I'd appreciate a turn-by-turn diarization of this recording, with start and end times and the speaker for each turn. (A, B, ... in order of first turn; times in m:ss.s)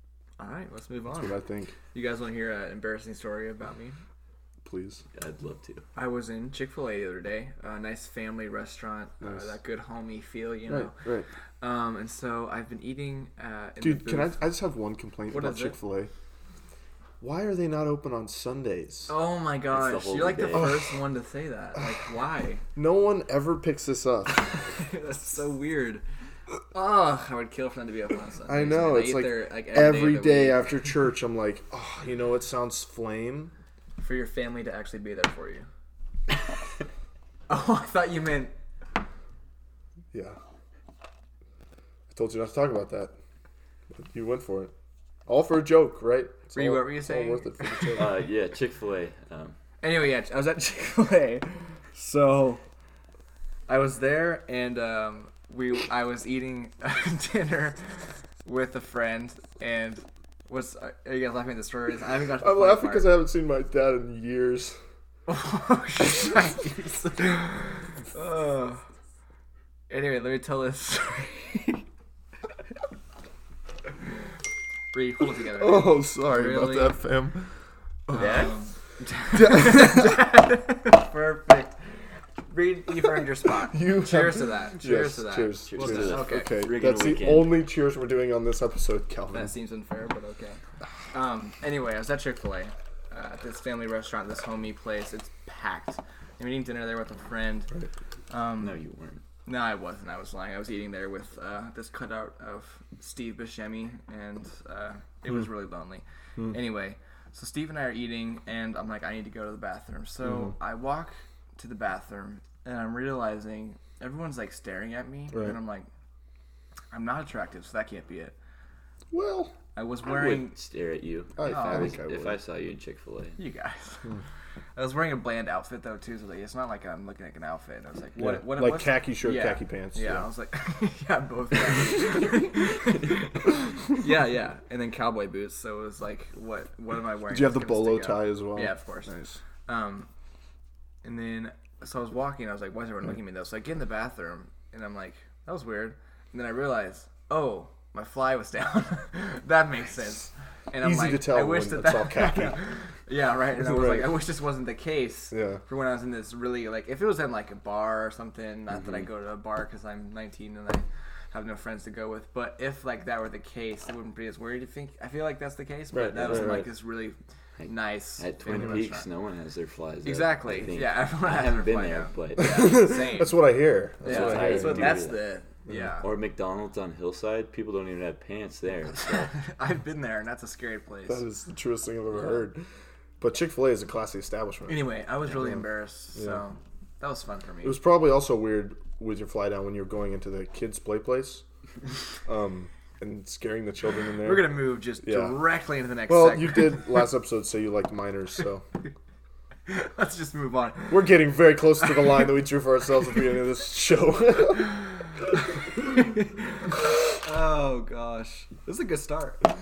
0:00.4-0:01.4 A
0:01.1-0:01.8 B
0:01.9-0:04.0 A
0:04.6-0:05.0 B
0:05.2-0:05.8 C
0:06.0-0:11.0 A
0:10.7-0:11.3 B
0:11.6-0:14.4 A
0:13.8-0:16.1 B
0:15.3-0:15.8 A
0:17.2-0:19.1 B
0:19.1-0:22.7 A
0:19.7-0:20.9 C
0:20.5-0:20.8 B
0:22.8-0:24.6 B
0:24.7-0:26.0 A
0:26.7-0:30.7 A
0:28.5-0:33.5 B
0:34.0-0:35.7 A
0:37.5-0:38.5 A
0:40.1-0:40.4 B
0:42.1-0:43.1 B
0:44.0-0:44.7 B
0:45.3-0:48.1 B
0:46.5-0:48.0 A
0:47.9-0:49.6 C
0:49.8-0:52.6 A
0:53.7-0:57.8 A
0:58.4-1:03.2 A
1:02.4-1:04.8 B
1:05.3-1:08.8 A
1:09.9-1:11.8 A
1:14.9-1:17.0 A
1:15.6-1:17.5 B
1:18.1-1:18.4 B
1:18.1-1:21.8 A
1:18.1-1:18.6 C
1:19.3-1:20.2 B
1:22.5-1:26.6 A
1:23.6-1:29.5 B
1:25.7-1:27.6 C
1:29.3-1:30.6 A
1:31.1-1:37.7 A
1:38.3-1:38.8 A
1:38.6-1:39.2 C
1:39.5-1:55.9 A
1:50.2-1:50.6 B
1:55.3-1:55.6 B
1:56.9-1:58.4 A
1:59.1-1:59.5 B
1:59.8-2:00.5 A
2:00.1-2:03.4 C
2:01.4-2:02.4 B
2:01.4-2:02.0 A
2:03.4-2:04.1 A
2:04.8-2:19.1 A
2:08.2-2:10.3 B
2:17.3-2:19.4 B
2:19.7-2:20.1 A
2:21.0-2:49.1 A
2:30.8-2:32.6 B
2:33.6-2:34.1 B
2:35.3-2:35.6 B
2:38.7-2:39.1 C
2:45.9-2:46.7 B
2:46.2-2:46.7 C
2:47.6-2:52.8 C
2:50.0-2:53.4 A
2:52.4-2:55.0 B
2:54.0-2:55.3 C
2:54.0-2:56.1 A
2:56.0-2:59.4 C
2:59.0-3:01.2 A
3:01.1-3:02.6 B
3:02.1-3:02.4 A
3:03.2-3:05.6 B
3:04.7-3:07.8 A
3:06.2-3:06.4 B
3:07.6-3:11.4 B
3:12.2-3:15.4 B
3:14.2-3:16.9 A
3:16.1-3:18.6 B
3:19.7-3:22.3 A
3:20.9-3:24.8 B
3:25.4-3:29.4 A